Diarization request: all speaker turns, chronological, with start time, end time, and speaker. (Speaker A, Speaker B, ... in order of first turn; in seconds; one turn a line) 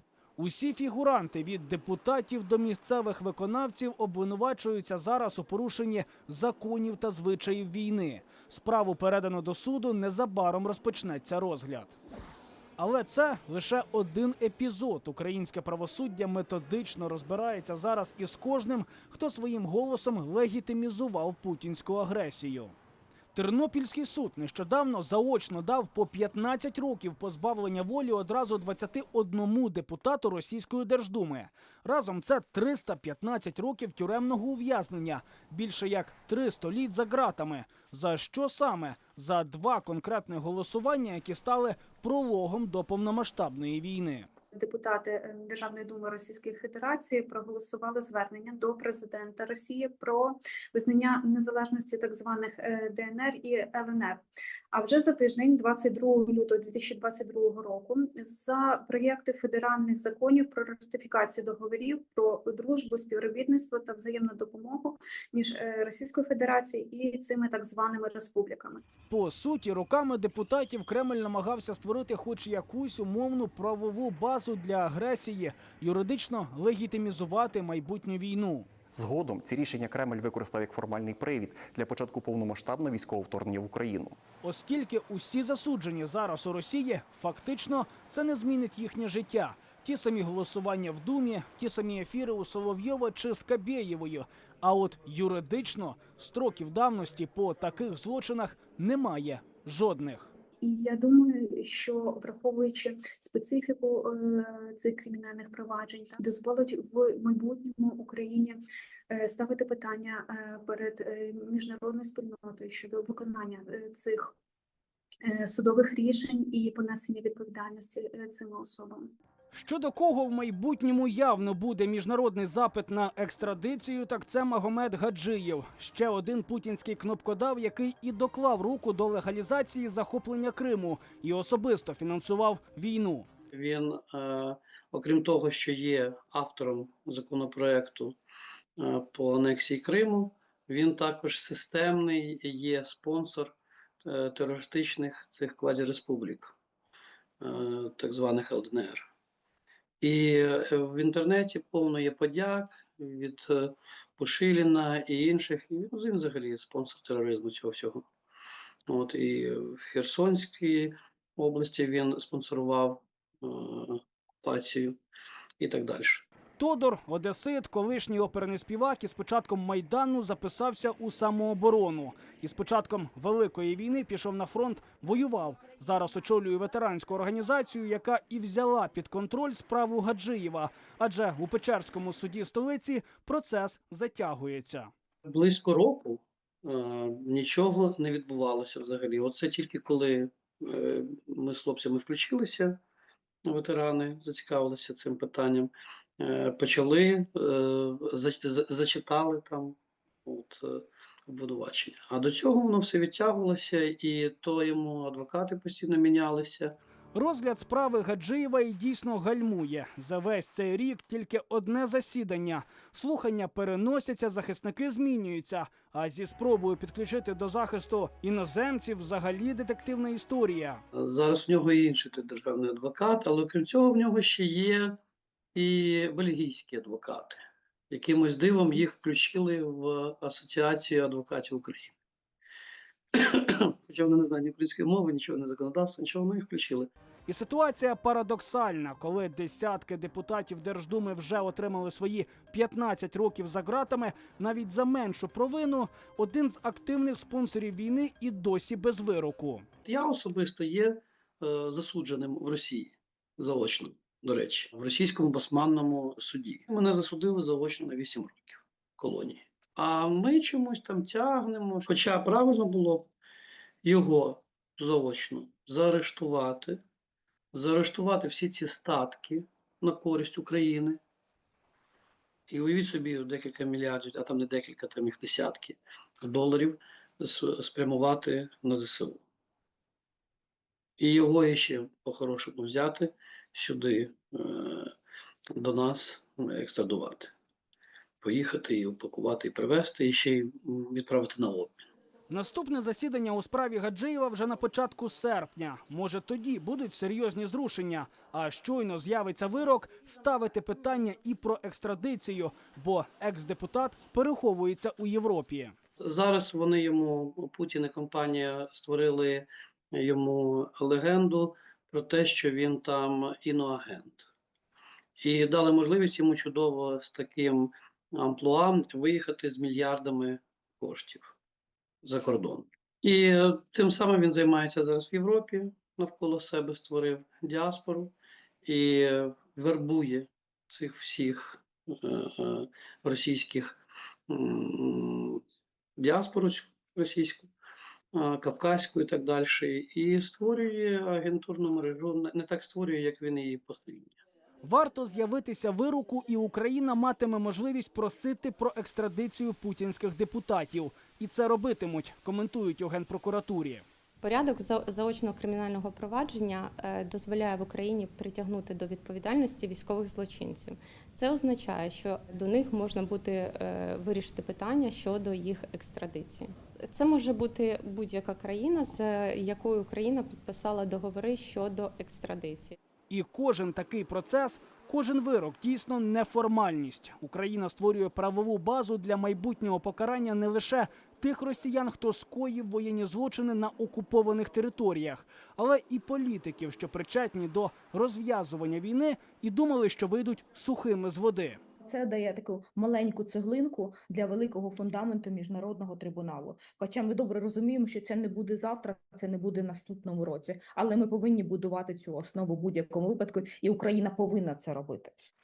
Speaker A: 0.4-11.9
Speaker A: 12.8-22.7
Speaker A: 23.3-44.3
Speaker B: 44.5-68.8
Speaker A: 69.1-78.7
Speaker C: 78.9-84.2
Speaker A: 84.4-100.3
Speaker B: 100.6-108.6
Speaker B: 109.1-114.3
Speaker B: 115.2-119.1
Speaker A: 119.5-133.3
Speaker D: 133.5-138.2
Speaker D: 138.8-146.5
Speaker D: 147.4-149.1
Speaker D: 150.0-158.0
Speaker D: 158.9-165.0
Speaker D: 165.6-166.3
Speaker A: 166.6-184.9
Speaker D: 185.2-192.8
Speaker D: 193.4-206.8
Speaker A: 207.1-220.8
Speaker D: 220.9-225.0
Speaker D: 225.5-227.4
Speaker D: 227.9-231.9
Speaker D: 233.1-236.9
Speaker A: 237.3-249.7
Speaker D: 249.8-263.1
Speaker D: 263.8-266.8
Speaker D: 267.5-271.0
Speaker D: 272.5-279.2
Speaker D: 281.0-284.9
Speaker D: 285.6-287.3
Speaker D: 288.2-291.8
Speaker A: 292.3-305.7
Speaker D: 306.0-314.3
Speaker D: 315.2-321.4
Speaker D: 322.0-335.4
Speaker D: 336.0-337.5
Speaker D: 338.1-344.1
Speaker A: 344.6-353.8
Speaker E: 354.2-372.8
Speaker A: 373.1-391.6
Speaker F: 391.8-405.1